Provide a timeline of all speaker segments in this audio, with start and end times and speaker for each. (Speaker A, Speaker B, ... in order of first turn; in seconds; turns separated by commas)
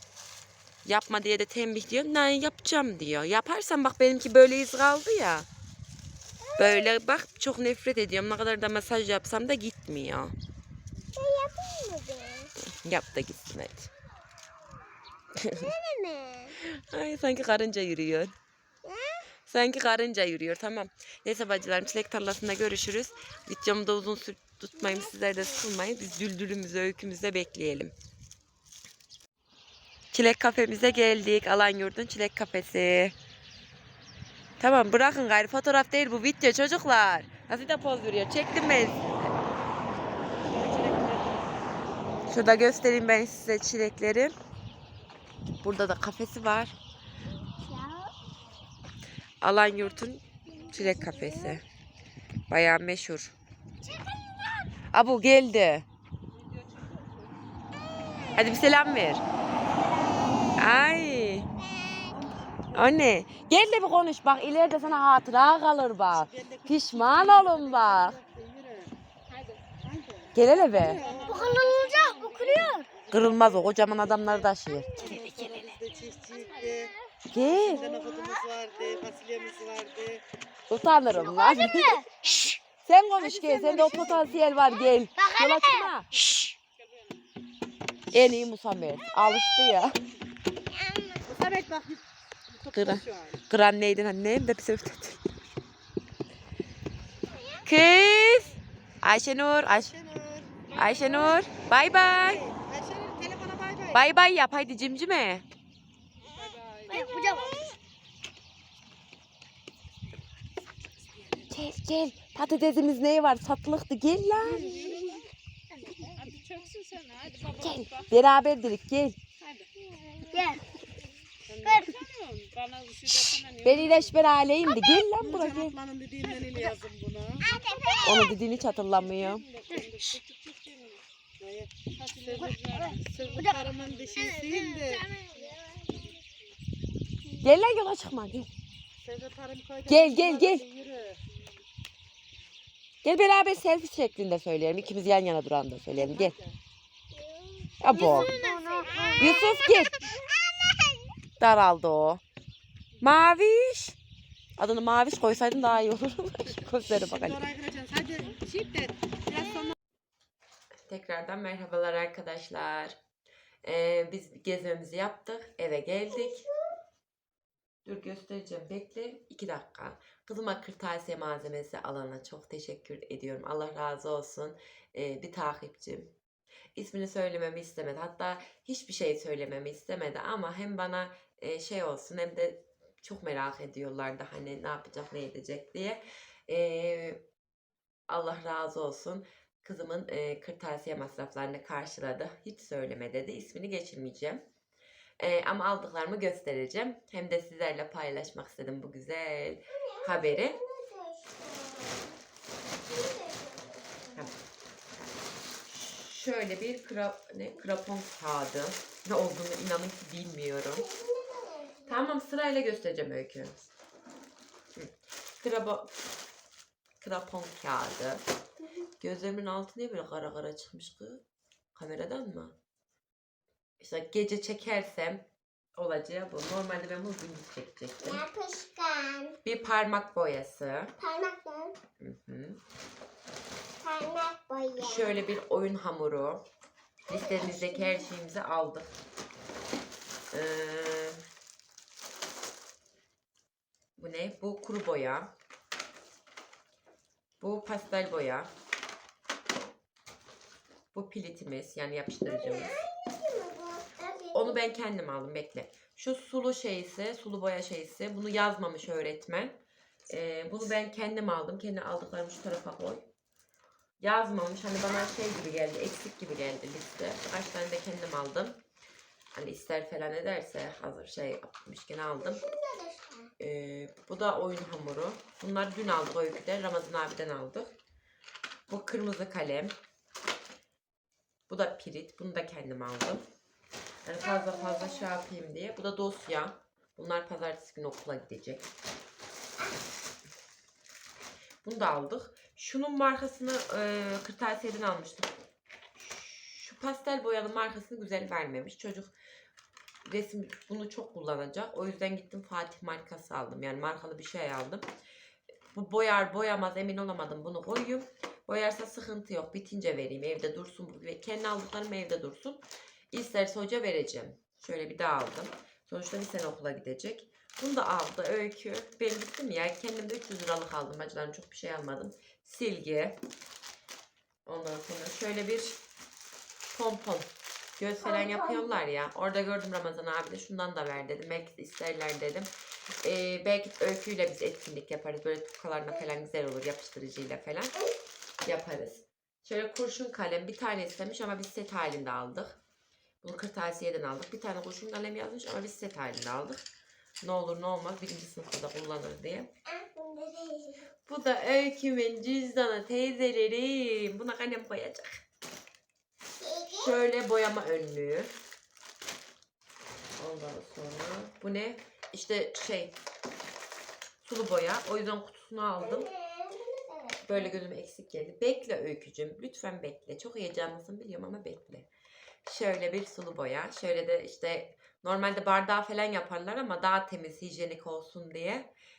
Speaker A: 0.8-5.5, Speaker B: 6.4-6.9, Speaker A: 6.6-10.3, Speaker B: 11.1-12.5, Speaker A: 12.6-13.9, Speaker A: 15.4-15.7, Speaker B: 15.5-16.6, Speaker A: 16.6-18.4, Speaker B: 18.8-19.2, Speaker A: 19.5-27.9, Speaker B: 24.8-25.6, Speaker A: 30.1-33.1, Speaker A: 34.6-39.4, Speaker C: 40.4-41.5, Speaker A: 42.3-44.3, Speaker A: 45.6-46.8, Speaker B: 47.4-48.1, Speaker A: 49.4-51.6, Speaker B: 50.5-51.6, Speaker A: 52.5-53.4, Speaker B: 53.9-54.7, Speaker A: 54.9-55.9, Speaker D: 56.3-57.4, Speaker B: 57.9-58.6, Speaker A: 58.4-59.2, Speaker A: 60.5-61.5, Speaker B: 61.6-62.2, Speaker C: 62.1-63.1, Speaker A: 62.7-68.2, Speaker C: 66.1-68.9, Speaker D: 69.3-69.6, Speaker C: 69.8-71.6, Speaker A: 70.3-71.0, Speaker D: 70.8-72.8, Speaker B: 71.2-72.9, Speaker C: 72.9-80.2, Speaker A: 73.1-75.0, Speaker B: 74.8-75.5, Speaker A: 77.3-77.8, Speaker B: 77.8-78.4, Speaker A: 80.7-86.2, Speaker B: 81.1-82.2, Speaker B: 83.2-84.2, Speaker C: 83.7-84.2, Speaker B: 84.7-85.9, Speaker D: 86.3-87.1, Speaker A: 88.1-90.0, Speaker B: 90.7-91.2, Speaker C: 91.2-93.4, Speaker A: 92.7-95.2, Speaker B: 97.2-98.5, Speaker A: 97.6-99.9, Speaker C: 99.6-100.6, Speaker B: 100.7-101.4, Speaker A: 100.8-102.4, Speaker C: 101.7-104.1, Speaker A: 103.9-105.4, Speaker D: 106.3-107.6, Speaker B: 106.9-107.8, Speaker A: 111.5-114.7, Speaker C: 114.4-115.1, Speaker B: 114.4-115.2, Speaker D: 114.5-115.1, Speaker D: 116.1-118.2, Speaker A: 117.6-119.2, Speaker D: 119.4-119.7, Speaker B: 120.2-120.7, Speaker C: 121.5-122.5, Speaker D: 121.5-124.2, Speaker B: 121.6-122.0, Speaker A: 123.6-125.7, Speaker B: 124.6-125.0, Speaker C: 125.2-127.5, Speaker B: 127.4-128.4, Speaker A: 128.0-129.4, Speaker D: 128.7-131.0, Speaker C: 131.4-135.0, Speaker D: 132.1-134.2, Speaker B: 133.4-136.1, Speaker A: 137.4-138.5, Speaker C: 139.0-141.2, Speaker A: 139.9-140.6, Speaker A: 143.0-146.4, Speaker C: 145.9-146.6, Speaker B: 147.1-151.1, Speaker A: 147.8-148.3, Speaker C: 147.9-149.8, Speaker A: 149.2-150.0, Speaker A: 151.4-152.2, Speaker A: 153.0-154.0, Speaker A: 154.6-157.4, Speaker C: 156.8-159.8, Speaker A: 160.9-163.0, Speaker A: 163.6-166.4, Speaker B: 166.1-166.8, Speaker A: 167.8-176.1, Speaker A: 176.8-187.2, Speaker A: 188.1-194.4, Speaker A: 195.2-200.6, Speaker B: 199.7-202.2, Speaker B: 202.8-204.3, Speaker A: 205.7-210.9, Speaker B: 210.7-212.1, Speaker A: 211.9-213.7, Speaker A: 214.8-215.9, Speaker A: 217.0-218.2, Speaker B: 218.6-218.9, Speaker A: 219.0-221.2, Speaker A: 221.7-222.5, Speaker A: 223.8-228.2, Speaker B: 228.0-229.4, Speaker A: 229.4-230.9, Speaker B: 231.0-231.8, Speaker A: 232.0-232.6, Speaker B: 233.8-235.2, Speaker A: 234.8-236.4, Speaker B: 237.1-238.1, Speaker A: 237.1-238.9, Speaker A: 240.3-241.2, Speaker A: 244.0-245.3, Speaker A: 247.4-248.5, Speaker A: 250.9-252.8, Speaker B: 252.2-254.6, Speaker A: 254.3-259.6, Speaker A: 260.1-263.1, Speaker A: 264.0-268.6, Speaker A: 269.4-272.4, Speaker B: 272.2-273.3, Speaker A: 273.4-277.7, Speaker A: 278.7-279.8, Speaker A: 281.5-283.2, Speaker A: 284.0-288.7, Speaker B: 284.2-285.1, Speaker A: 291.6-295.3, Speaker A: 296.0-299.1, Speaker A: 300.0-304.9, Speaker A: 305.7-323.2, Speaker A: 324.5-325.8, Speaker A: 326.7-332.5, Speaker B: 328.0-328.8, Speaker A: 333.0-337.7, Speaker A: 338.4-342.6, Speaker A: 343.2-346.6, Speaker A: 347.2-349.5, Speaker B: 349.7-350.9, Speaker A: 351.1-355.2, Speaker B: 356.4-357.0, Speaker A: 356.8-358.3, Speaker A: 360.2-363.0, Speaker A: 364.2-366.1, Speaker B: 365.8-367.6, Speaker A: 367.2-371.9, Speaker A: 372.4-378.7